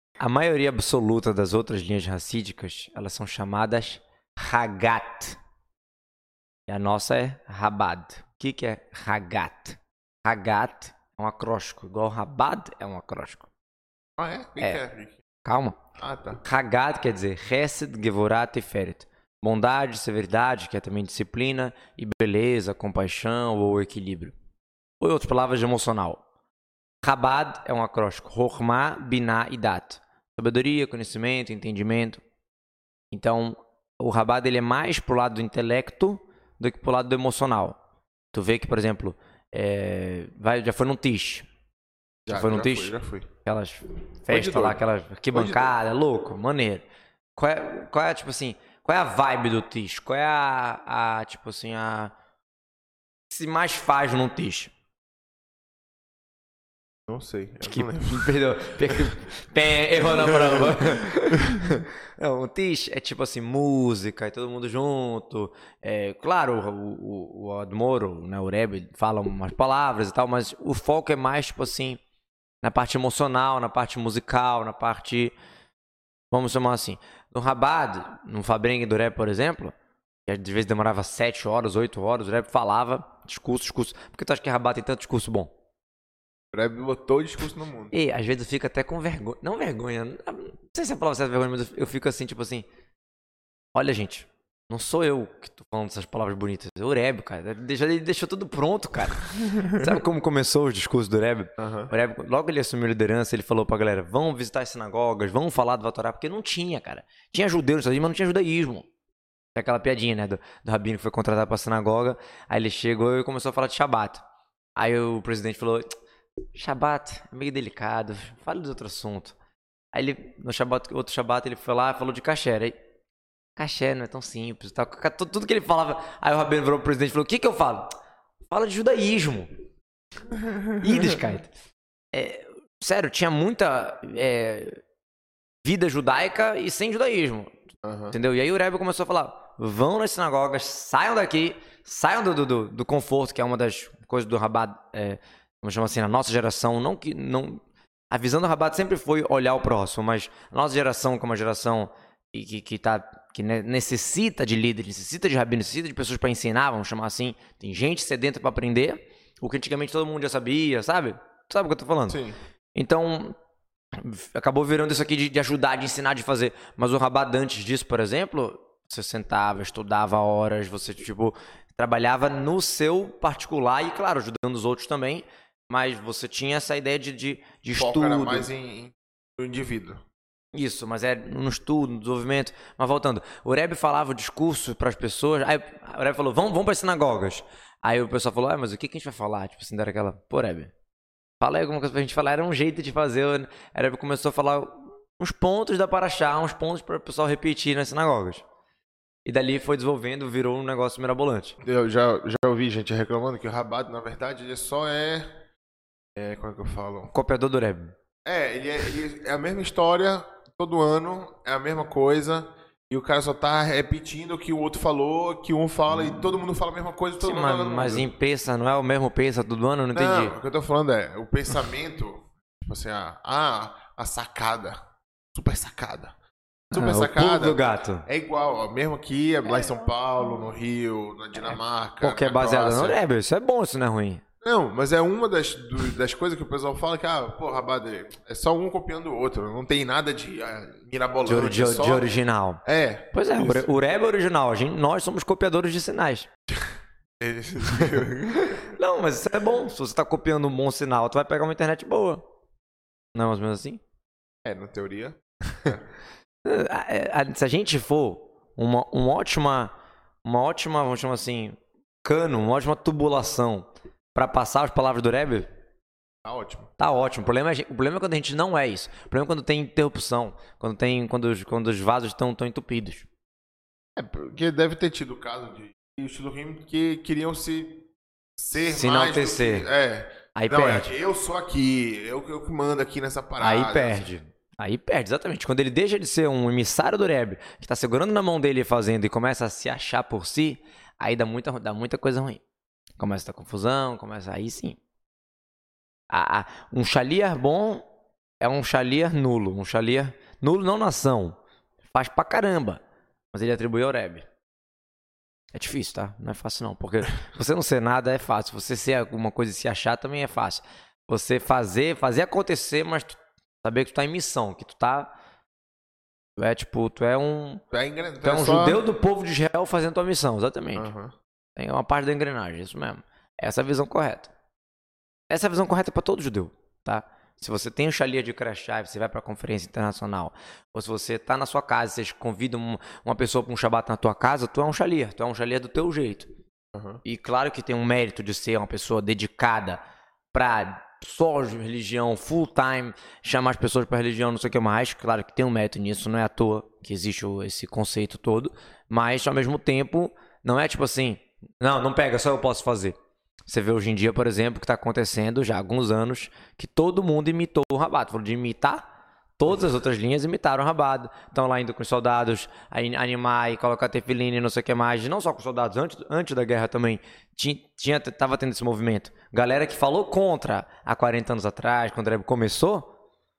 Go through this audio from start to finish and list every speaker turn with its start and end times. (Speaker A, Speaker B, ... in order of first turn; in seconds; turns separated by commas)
Speaker A: 0.2-5.4, Speaker A: 6.7-13.5, Speaker B: 14.2-15.2, Speaker A: 15.4-15.8, Speaker B: 16.0-16.4, Speaker A: 16.4-24.3, Speaker A: 25.0-26.2, Speaker A: 27.0-32.2, Speaker A: 33.1-37.8, Speaker A: 38.3-41.5, Speaker B: 42.3-43.3, Speaker A: 42.3-46.8, Speaker B: 44.3-44.8, Speaker B: 45.3-45.7, Speaker A: 47.4-52.1, Speaker A: 53.3-54.7, Speaker B: 57.1-59.1, Speaker A: 57.6-72.0, Speaker B: 60.0-61.7, Speaker A: 72.6-75.3, Speaker A: 76.3-79.7, Speaker A: 80.2-85.5, Speaker B: 86.5-87.9, Speaker A: 87.9-92.7, Speaker A: 93.7-108.9, Speaker B: 101.6-101.9, Speaker A: 109.5-114.2, Speaker A: 114.8-115.9, Speaker A: 116.5-119.3, Speaker A: 119.9-122.8, Speaker A: 123.6-127.9, Speaker A: 128.5-129.5, Speaker B: 130.4-131.1, Speaker A: 130.8-131.5, Speaker A: 132.1-134.8, Speaker A: 135.6-137.6, Speaker B: 137.8-138.2, Speaker A: 138.1-162.2, Speaker B: 162.1-162.3, Speaker A: 162.7-163.3, Speaker A: 163.9-178.5, Speaker B: 177.8-180.0, Speaker A: 180.5-190.7, Speaker A: 191.4-198.4, Speaker A: 199.2-201.5, Speaker B: 201.6-205.3, Speaker B: 206.1-207.1, Speaker A: 207.1-207.9, Speaker B: 208.2-218.1, Speaker A: 217.2-220.3, Speaker B: 219.9-224.8, Speaker B: 225.3-226.1, Speaker A: 226.7-228.1, Speaker B: 226.7-233.0, Speaker A: 232.0-234.2, Speaker B: 234.4-242.1, Speaker A: 241.2-246.3, Speaker B: 242.6-243.7, Speaker B: 247.2-248.6, Speaker A: 247.9-252.2, Speaker A: 253.1-253.8, Speaker B: 254.4-255.8, Speaker A: 256.4-259.7, Speaker A: 260.2-265.5, Speaker B: 266.2-266.7, Speaker A: 266.8-273.1, Speaker B: 273.9-284.1, Speaker A: 278.7-279.7, Speaker A: 280.3-280.9, Speaker A: 283.4-292.4, Speaker A: 293.0-294.8, Speaker A: 296.1-297.8, Speaker A: 298.4-301.4, Speaker A: 301.9-302.8, Speaker A: 303.3-304.2, Speaker A: 305.5-315.1, Speaker A: 316.4-317.6, Speaker B: 317.7-318.8, Speaker A: 318.2-320.9, Speaker B: 320.8-321.1, Speaker A: 321.6-324.3, Speaker A: 325.3-336.3, Speaker B: 336.7-337.0, Speaker A: 337.0-339.8, Speaker A: 340.3-352.9, Speaker A: 353.5-358.8, Speaker A: 359.4-372.9